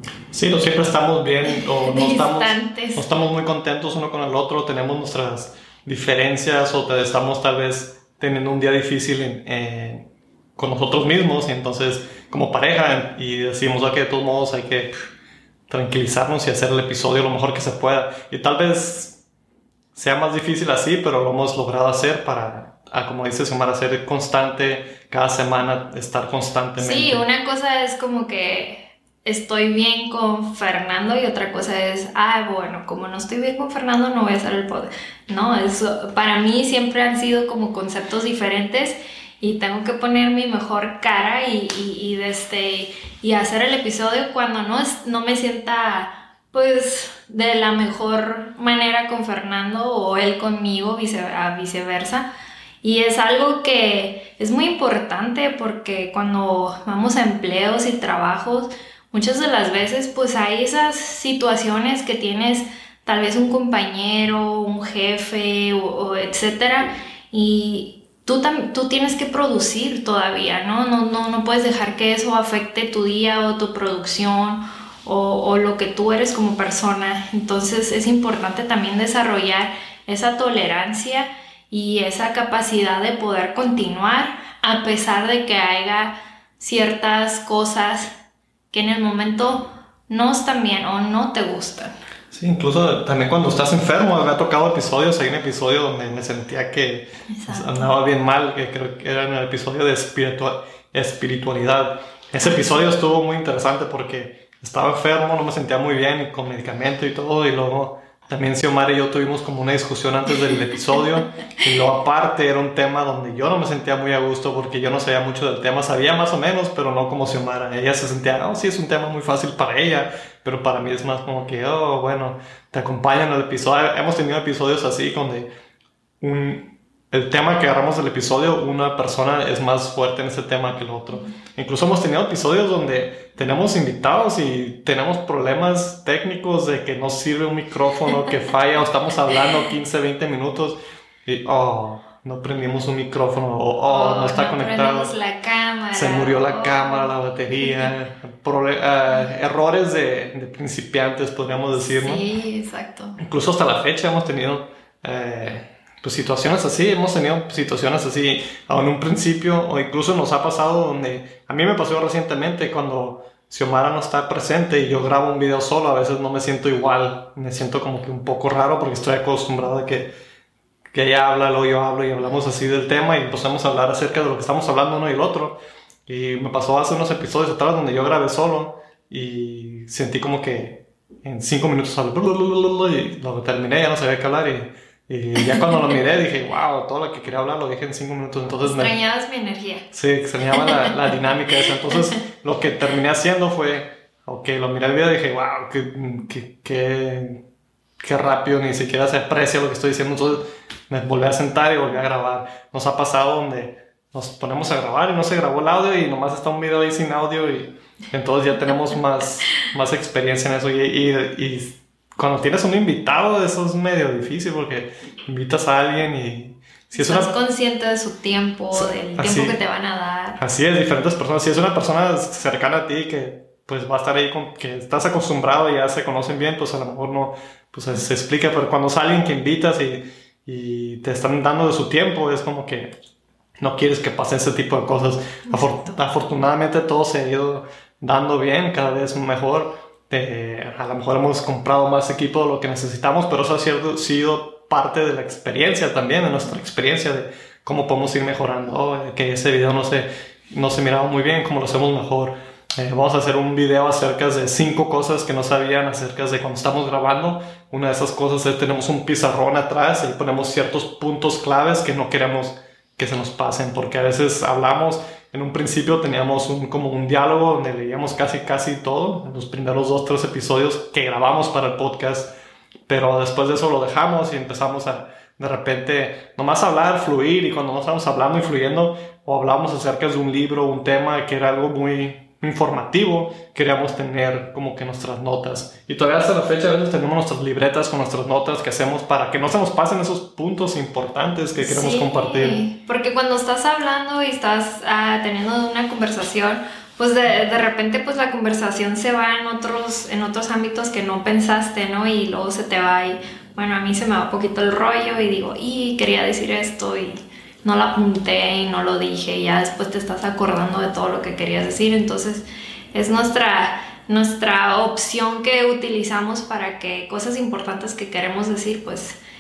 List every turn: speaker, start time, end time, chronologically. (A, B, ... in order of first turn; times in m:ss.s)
0:00.3-0:10.0 A
0:01.4-0:03.1 B
0:10.6-0:14.9 A
0:15.7-0:19.2 A
0:20.0-0:27.2 A
0:26.8-0:52.3 B
0:52.8-1:28.1 B
1:28.7-1:32.0 B
1:32.3-2:05.5 A
1:37.3-1:37.9 B
2:06.2-2:25.1 A
2:23.9-2:27.9 B
2:25.9-2:32.2 A
2:31.8-2:33.2 B
2:33.2-2:50.1 A
2:50.9-3:09.0 A
3:08.6-3:09.9 B
3:09.9-3:17.4 A
3:10.5-3:10.8 B
3:18.0-3:37.3 A
3:36.9-3:40.4 B
3:38.7-3:39.6 A
3:40.4-3:52.9 A
3:53.6-4:32.3 A
3:55.5-3:56.0 B
4:32.9-4:52.6 A
4:51.6-5:19.2 B